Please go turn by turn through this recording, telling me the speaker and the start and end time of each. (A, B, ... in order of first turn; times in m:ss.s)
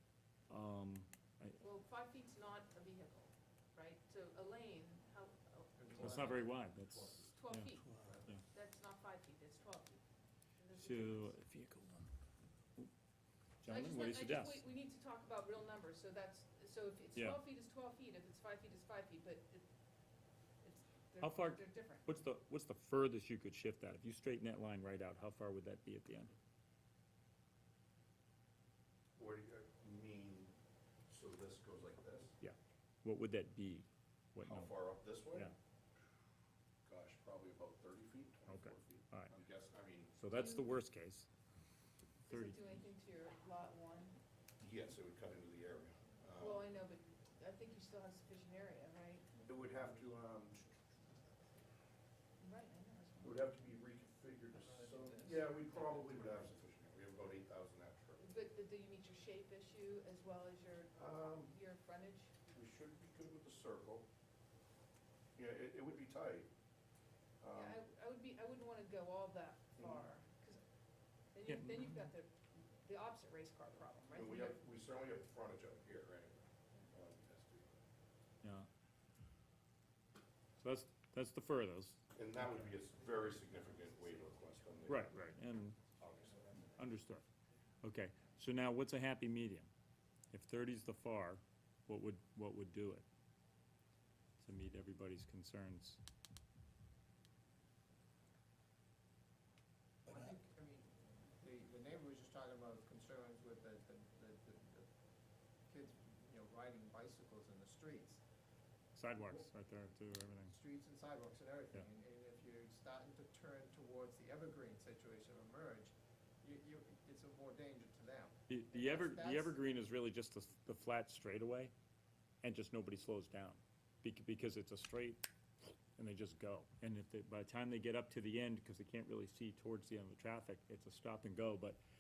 0:00.5-0:01.6 A
0:01.6-0:06.5 B
0:05.8-0:06.5 C
0:06.0-0:08.4 A
0:06.9-0:07.3 D
0:07.3-0:07.9 B
0:07.9-0:08.3 C
0:08.5-0:10.0 B
0:10.6-0:11.3 B
0:10.7-0:12.1 A
0:13.6-0:14.6 A
0:13.6-0:19.7 B
0:17.1-0:17.4 A
0:20.6-0:22.0 B
0:21.2-0:26.3 A
0:29.2-0:30.5 D
0:31.1-0:32.3 D
0:32.4-0:34.8 A
0:34.4-0:35.5 D
0:36.8-0:40.3 D
0:38.5-0:39.3 A
0:40.2-0:41.3 A
0:40.3-0:40.8 B
0:42.2-0:42.8 A
0:42.3-0:44.2 B
0:44.6-0:46.7 D
0:46.4-0:49.3 B
0:49.4-0:50.8 D
0:49.7-0:50.0 C
0:52.4-0:53.5 B
0:53.2-0:58.3 D
0:54.5-0:56.2 C
0:58.2-1:02.3 B
1:00.9-1:01.5 D
1:02.5-1:04.1 D
1:05.4-1:06.5 D
1:07.4-1:07.8 D
1:07.6-1:10.6 B
1:09.8-1:10.1 D
1:11.3-1:14.6 B
1:11.5-1:12.1 A
1:14.1-1:17.8 D
1:18.4-1:18.7 A
1:20.6-1:22.7 A
1:22.1-1:25.1 D
1:24.8-1:25.8 A
1:25.9-1:26.8 D
1:26.8-1:27.2 A
1:27.8-1:29.7 A
1:30.3-1:33.0 A
1:34.4-1:36.0 A
1:40.1-1:44.9 C
1:45.7-1:48.2 C
1:48.9-1:50.6 A
1:50.4-1:59.6 C
1:58.5-2:01.7 A
2:02.4-2:05.3 A
2:06.0-2:11.8 A